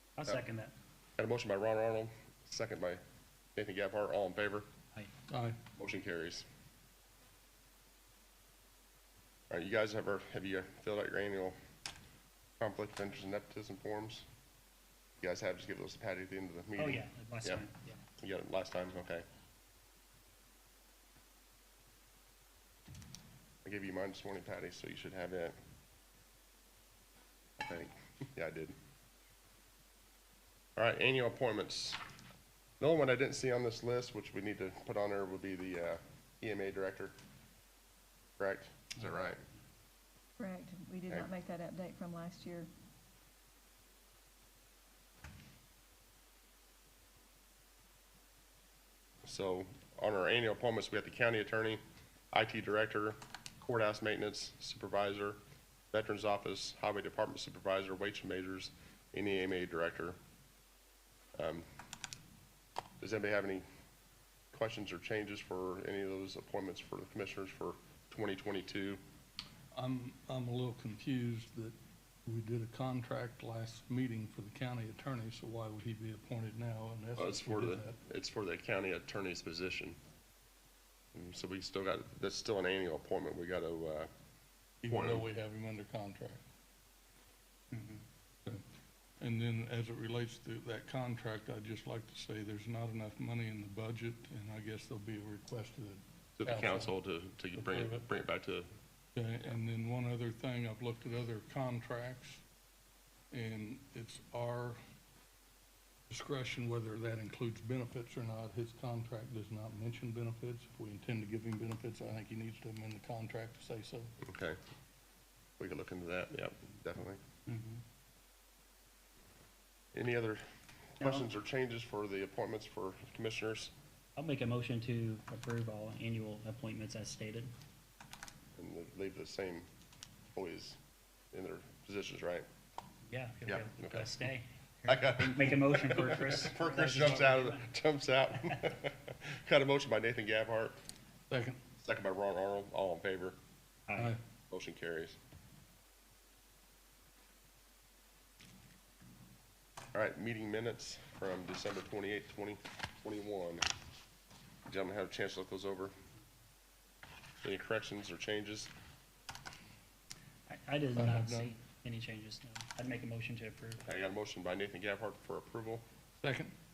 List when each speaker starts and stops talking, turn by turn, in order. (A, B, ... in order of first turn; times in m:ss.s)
0:00.2-0:00.7 A
0:01.2-0:03.0 B
0:03.6-0:04.6 B
0:05.3-0:05.6 C
0:05.8-0:06.4 B
0:09.5-0:11.6 B
0:12.6-0:14.2 B
0:15.2-0:17.6 B
0:16.8-0:18.0 A
0:18.2-0:19.2 B
0:23.6-0:25.6 B
0:27.6-0:28.7 B
0:30.8-0:32.0 B
0:32.8-0:37.1 B
0:38.4-0:39.4 B
0:40.4-0:42.7 D
0:49.2-0:51.8 B
0:52.3-0:55.4 B
0:55.9-1:00.2 B
1:01.4-1:01.7 B
1:03.0-1:03.6 B
1:04.5-1:09.0 B
1:09.7-1:18.0 C
1:17.2-1:20.0 B
1:21.1-1:24.1 B
1:24.8-1:26.4 C
1:24.8-1:25.2 B
1:27.7-1:28.0 A
1:29.2-1:36.9 C
1:36.4-1:38.7 B
1:37.6-1:38.0 C
1:39.2-1:42.4 C
1:43.3-1:44.8 C
1:46.1-1:54.1 C
1:54.2-1:54.6 B
1:55.6-1:57.2 B
1:57.5-1:57.8 A
1:59.9-2:00.4 B
2:01.0-2:03.7 B
2:01.0-2:01.3 A
2:04.2-2:07.5 A
2:08.6-2:09.7 B
2:10.3-2:10.8 B
2:11.3-2:12.4 B
2:13.1-2:17.7 A
2:13.4-2:14.1 B
2:14.9-2:20.8 B
2:21.3-2:21.6 C
2:21.8-2:23.4 B
2:23.9-2:24.2 A
2:24.5-2:25.2 B
2:29.9-2:33.6 B
2:34.7-2:35.9 B
2:37.4-2:38.7 B
2:40.5-2:43.8 A
2:40.9-2:41.5 C
2:43.8-2:45.8 B
2:46.2-2:46.5 C